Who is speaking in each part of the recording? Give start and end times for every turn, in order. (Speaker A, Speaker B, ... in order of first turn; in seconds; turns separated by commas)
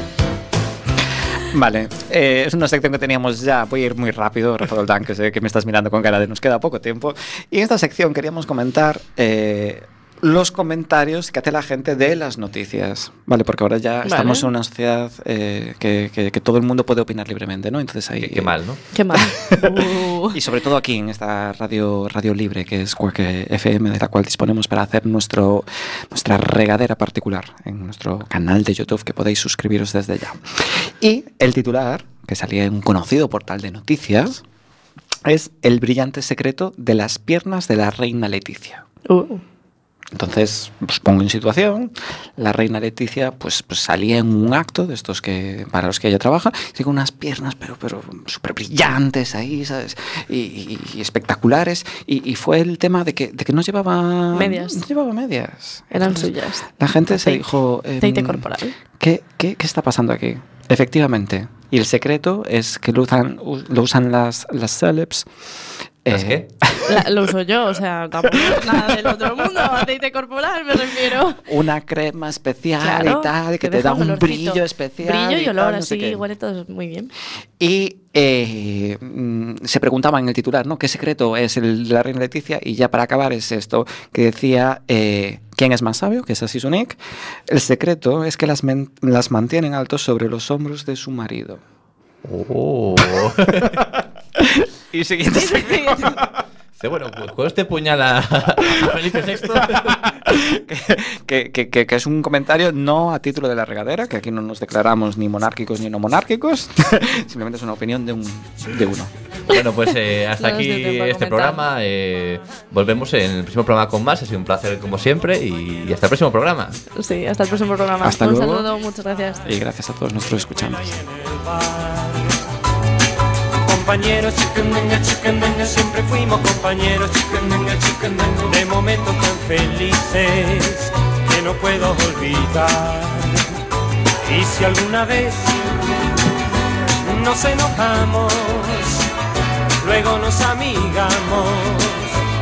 Speaker A: 1.4-18.6, Speaker B: 14.1-14.5, Speaker C: 18.2-18.8, Speaker B: 18.9-20.4, Speaker A: 19.1-34.4, Speaker A: 35.3-38.8, Speaker B: 39.1-39.4, Speaker A: 40.1-58.5, Speaker B: 54.3-54.8, Speaker B: 55.9-57.5, Speaker B: 58.0-58.8, Speaker A: 59.0-65.3, Speaker A: 66.0-67.2, Speaker C: 66.1-66.5, Speaker B: 66.9-71.4, Speaker A: 68.3-69.6, Speaker A: 71.5-76.2, Speaker B: 72.8-77.1, Speaker A: 77.6-91.6, Speaker C: 92.2-93.8, Speaker A: 94.4-96.3, Speaker B: 95.3-96.2, Speaker C: 96.8-100.0, Speaker A: 99.5-109.1, Speaker C: 109.5-116.8, Speaker B: 110.4-111.6, Speaker B: 117.0-119.5, Speaker A: 118.0-118.7, Speaker A: 119.5-121.0, Speaker D: 120.7-122.4, Speaker D: 123.6-133.4, Speaker D: 134.2-135.7, Speaker D: 137.1-139.1, Speaker D: 139.8-142.2